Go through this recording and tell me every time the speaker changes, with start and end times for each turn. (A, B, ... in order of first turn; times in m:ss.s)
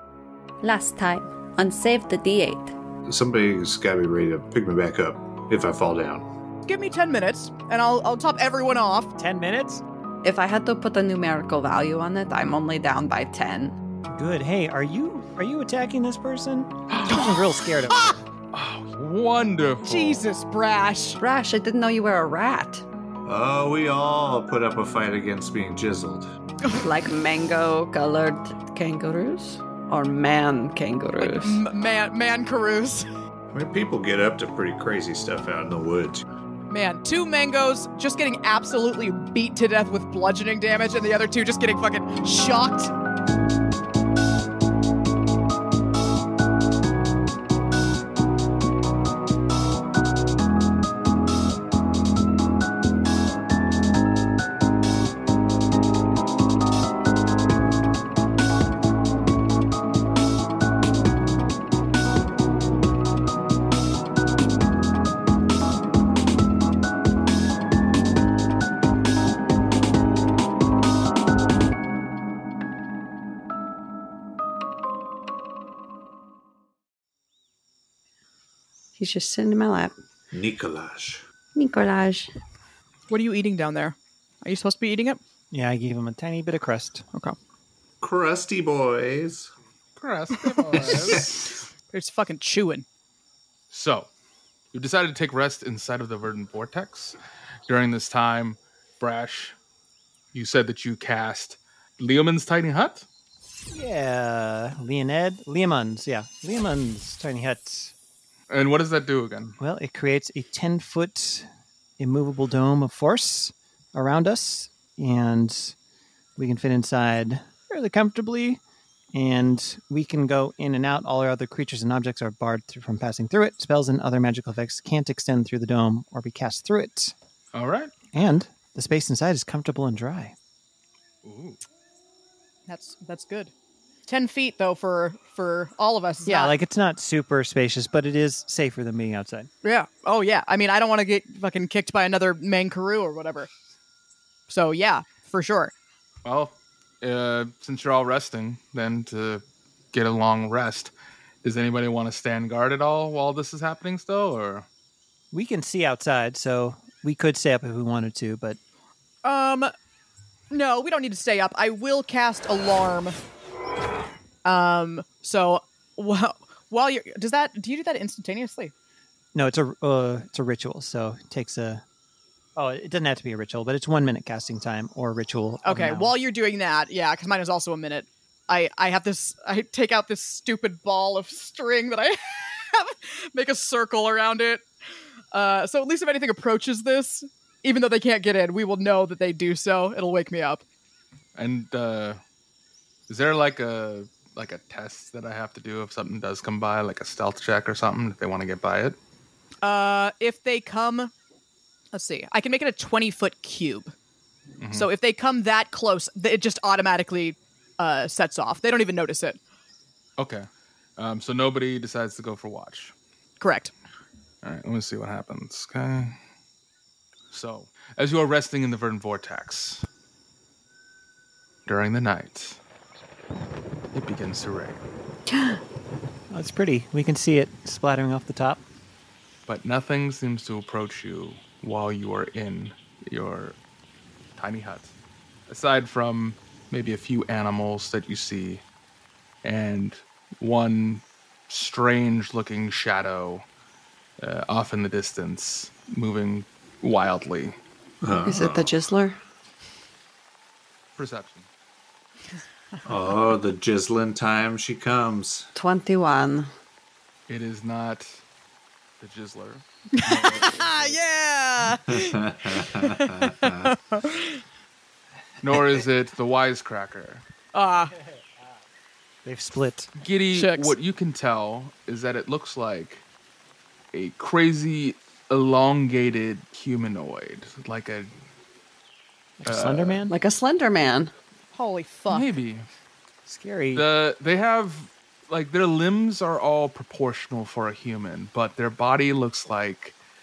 0:00.6-0:02.7 A
0:03.0-0:06.3 B
0:06.6-0:09.1 C
0:09.2-0:09.8 D
0:10.2-0:13.8 A
0:14.1-0:18.1 D
0:16.9-0:17.3 E
0:18.5-0:20.2 E
0:19.8-0:21.2 C
0:21.2-0:22.8 A
0:23.2-0:26.3 B
0:26.7-0:31.6 A
0:31.2-0:33.0 C
0:33.5-0:36.2 B
0:36.7-0:42.9 C
1:19.0-1:19.9 A
1:20.3-1:21.2 B
1:21.5-1:22.3 A
1:23.1-1:25.2 C
1:25.5-1:27.0 D
1:28.0-1:29.5 B
1:30.0-1:31.4 E
1:30.8-1:31.2 C
1:30.8-1:31.5 B
1:31.9-1:32.8 C
1:33.7-1:34.1 E
1:34.7-1:37.2 E
1:37.7-1:39.6 E
1:40.3-1:43.0 E
1:43.7-1:47.9 D
1:48.5-1:49.6 E
1:49.6-1:51.5 D
1:52.0-1:55.7 D
1:56.4-1:58.6 D
1:59.1-2:07.1 D
2:07.5-2:07.9 E
2:08.1-2:10.3 D
2:11.2-2:11.6 E
2:12.7-2:13.5 C
2:14.1-2:16.5 C
2:16.2-2:19.5 D
2:19.6-2:23.5 C
2:24.5-2:25.7 C
2:26.2-2:30.9 E
2:31.4-2:34.6 E
2:35.3-2:38.6 D
2:39.2-2:39.7 C
2:40.5-2:43.2 C
2:44.4-2:48.7 C
2:49.3-2:51.8 D
2:52.6-2:56.1 D
2:55.6-3:04.6 C
3:05.3-3:10.6 C
3:11.4-3:12.2 E
3:13.1-3:19.0 E
3:19.6-3:21.1 C
3:21.9-3:23.9 C
3:24.6-3:24.9 E
3:24.7-3:29.4 C
3:30.2-3:32.9 E
3:33.4-3:33.7 C
3:34.4-3:36.2 E
3:37.3-3:39.8 E
3:41.6-3:42.6 E
3:43.9-3:44.8 E
3:45.3-3:45.6 A
3:46.3-3:48.6 D
3:49.5-3:53.6 E
3:54.4-3:54.9 E
3:55.5-3:58.6 E
3:59.4-4:03.4 E
4:04.2-4:07.6 E
4:08.0-4:08.7 B
4:08.2-4:09.2 A
4:11.0-4:11.5 E
4:12.8-4:15.5 B
4:15.6-4:16.5 A
4:17.3-4:18.2 E
4:19.0-4:21.0 E
4:19.9-4:24.4 C
4:21.9-4:23.7 B
4:25.4-4:27.2 E
4:27.5-4:27.9 C
4:29.2-4:29.9 D
4:30.0-4:33.0 E
4:30.3-4:30.7 C
4:33.9-4:38.1 E
4:39.4-4:40.1 D
4:39.4-4:40.0 E
4:40.1-4:41.1 A
4:41.5-4:42.3 C
4:42.1-4:42.6 E
4:43.3-4:43.8 D
4:43.7-4:49.9 E